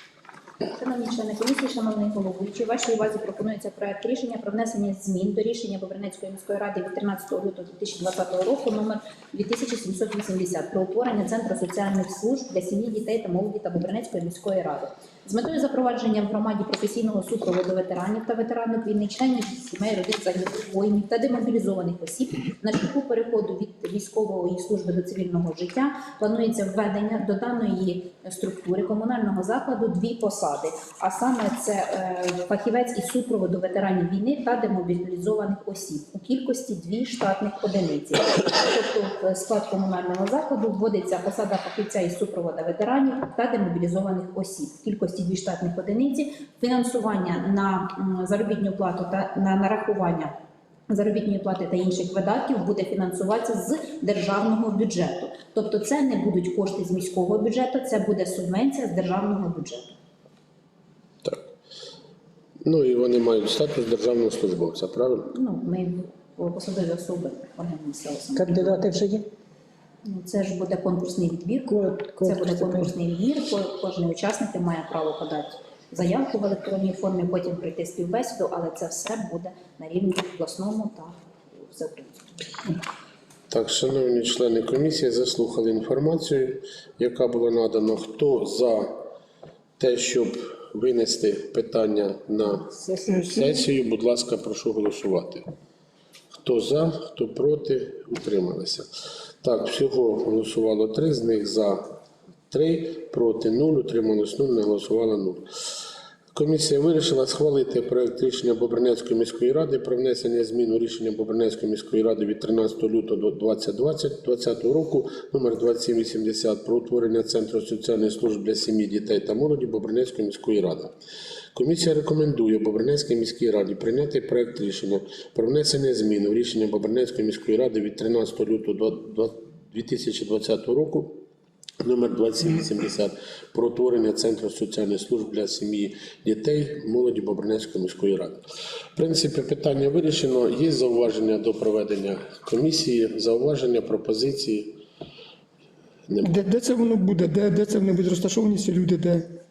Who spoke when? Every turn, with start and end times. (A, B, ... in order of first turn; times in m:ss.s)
0:00.7-0:50.3 A
0:50.9-0:59.9 A
1:02.6-1:05.3 B
1:05.3-1:08.8 A
1:08.3-1:09.2 C
1:10.0-1:21.2 A
1:11.7-1:12.9 C
1:21.7-1:22.1 A
1:23.5-1:29.0 B
1:29.8-1:35.5 B
1:32.8-1:33.5 C
1:36.4-1:38.9 B
1:39.4-1:41.9 B
1:42.5-1:45.4 B
1:46.3-2:00.9 B
2:01.5-2:11.2 B
2:11.8-2:18.4 B
2:18.9-2:24.8 B
2:26.1-2:26.4 B
2:26.2-2:29.3 D